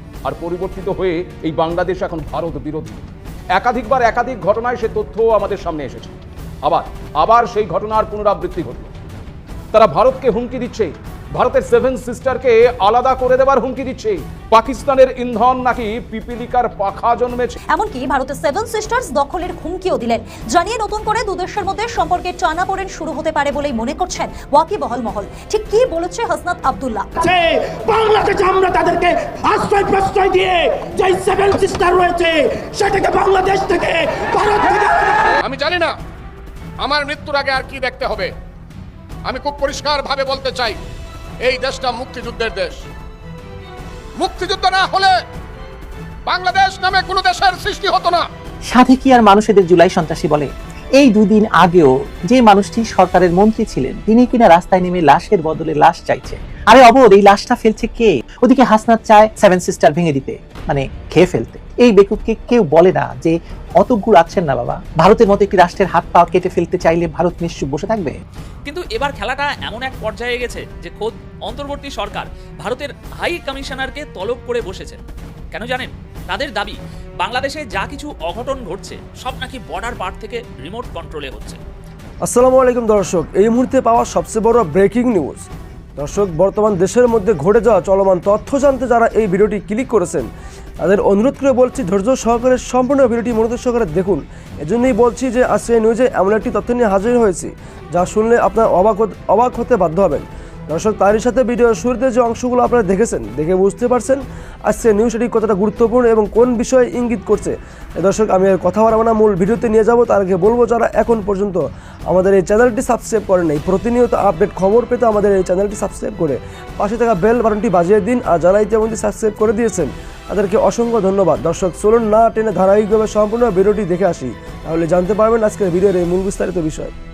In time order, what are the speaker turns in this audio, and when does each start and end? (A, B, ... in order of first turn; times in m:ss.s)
0:00.2-0:08.9 A
0:09.7-0:17.6 A
0:17.7-0:27.1 B
0:27.2-0:35.4 C
0:35.4-0:36.0 D
0:36.8-0:38.3 D
0:39.3-0:40.8 D
0:41.4-0:42.8 D
0:44.2-0:45.2 D
0:46.3-0:48.3 D
0:48.7-1:08.2 E
1:08.7-1:15.0 F
1:15.5-1:21.6 F
1:22.2-1:30.3 G
1:30.8-2:06.9 G